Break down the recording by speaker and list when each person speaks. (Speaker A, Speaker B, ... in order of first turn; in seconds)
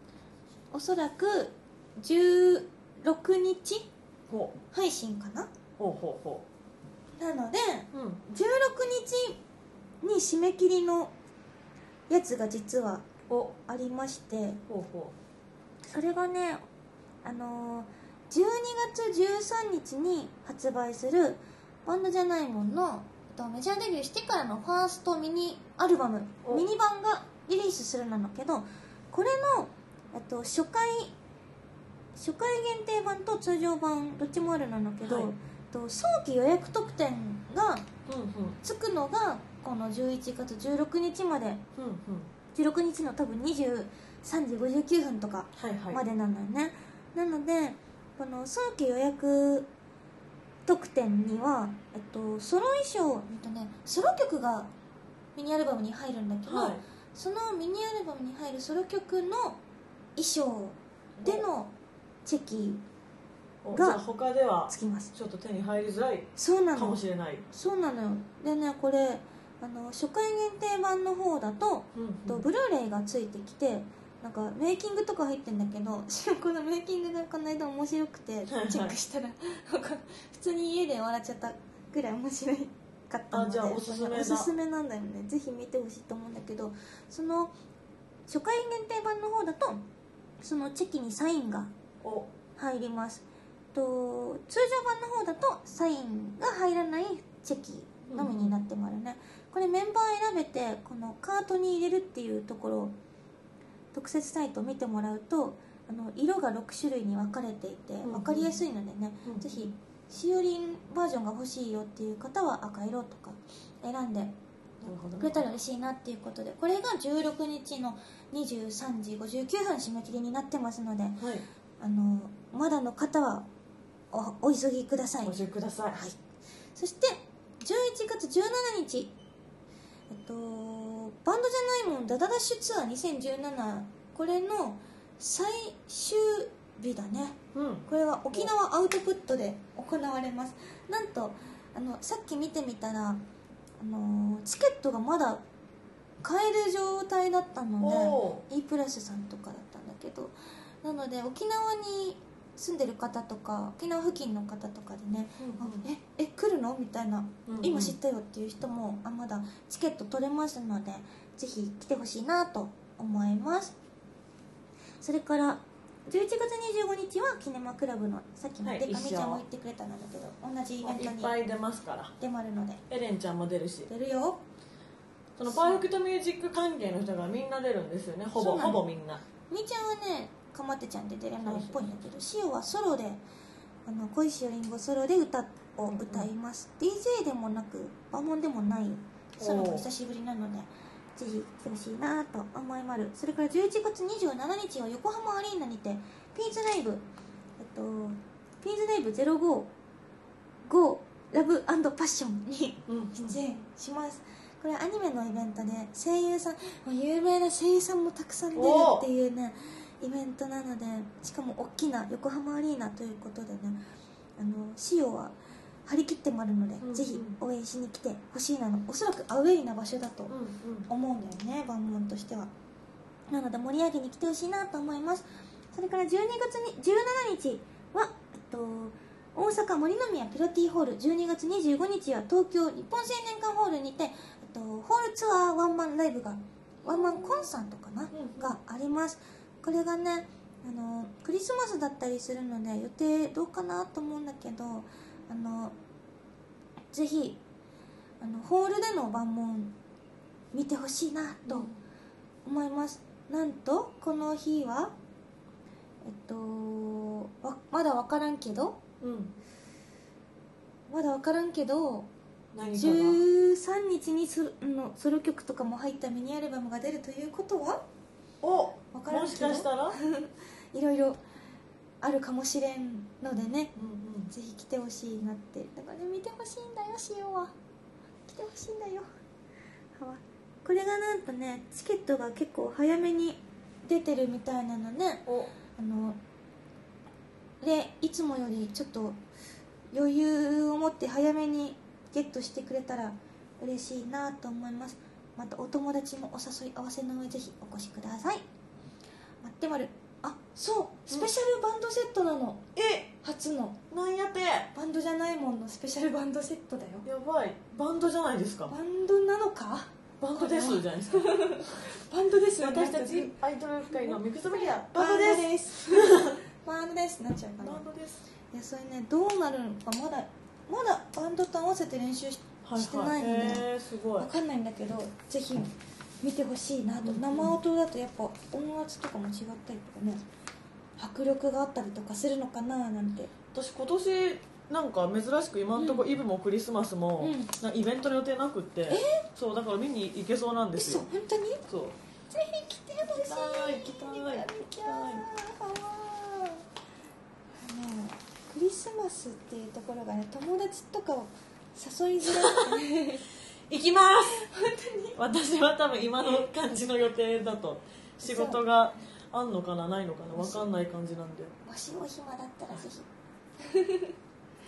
Speaker A: 0.7-3.9, 4.7-5.5, 7.2-9.4, 10.0-11.1, 12.1-13.1, 13.6-14.6, 15.9-16.6, 17.2-31.1, 32.1-37.9, 38.6-41.6, 42.5-49.7, 50.7-54.7, 55.4-59.6, 60.1-61.7, 62.2-62.8, 63.7-64.0, 64.7-65.1, 66.4-87.5, 88.3-89.8, 90.4-91.7, 92.6-102.9, 103.9-114.3, 115.2-121.2, 121.8-123.5, 124.1-125.4, 125.9-126.2, 126.7-129.1, 130.1-143.2, 143.8-145.4, 146.2-163.7, 165.0-171.3, 172.2-172.8, 173.9-174.4, 175.5-175.8, 178.3-178.8, 179.5-183.2, 183.8-197.0, 197.6-199.7, 200.7-213.8, 214.4-215.3, 215.8-220.3, 220.9-222.5, 223.3-245.7, 246.9-247.4, 248.2-249.7, 250.5-251.7, 252.4-254.9, 256.0-258.8, 260.9-262.1, 262.7-267.8, 268.9-271.2, 272.0-273.7, 274.3-277.5, 278.3-279.1, 279.9-286.2, 287.6-289.2, 289.9-298.4, 299.4-302.6, 303.2-303.8, 304.7-307.1, 308.7-313.4, 313.9-317.9, 318.5-323.7, 324.2-330.2, 331.0-333.3, 335.8-336.0, 337.2-337.5, 338.9-339.2, 340.8-341.7, 342.3-346.6, 347.6-353.2, 354.4-355.2, 358.2-358.6, 360.3-360.7, 361.6-363.1, 363.6-364.1
Speaker B: 4.3-4.5, 5.8-6.4, 7.9-8.2, 13.3-13.5, 14.7-15.1, 35.0-35.3, 38.1-38.6, 41.8-42.3, 45.5-46.0, 56.4-56.8, 61.2-61.4, 63.6-67.4, 71.9-72.5, 78.5-79.0, 83.3-84.5, 92.0-92.3, 98.1-98.5, 108.0-108.5, 109.2-109.7, 114.8-115.5, 121.2-121.5, 125.2-126.0, 137.5-138.5, 147.8-148.4, 155.4-155.8, 157.5-157.9, 168.6-169.4, 170.8-172.1, 172.9-173.9, 175.4-179.2, 181.4-181.9, 185.9-186.3, 189.4-189.9, 202.9-203.4, 208.5-209.1, 216.8-217.4, 220.3-220.9, 236.8-237.4, 238.1-238.6, 251.4-251.8, 259.0-259.3, 262.5-263.2, 268.4-270.0, 273.8-274.3, 285.3-285.5, 302.8-303.1, 303.9-304.7, 307.0-308.7, 310.2-311.8, 312.6-316.4, 317.6-318.2, 322.6-324.3, 327.0-327.6, 333.5-341.0, 341.7-341.9, 343.0-345.2, 352.4-352.7, 353.7-354.4, 355.1-361.5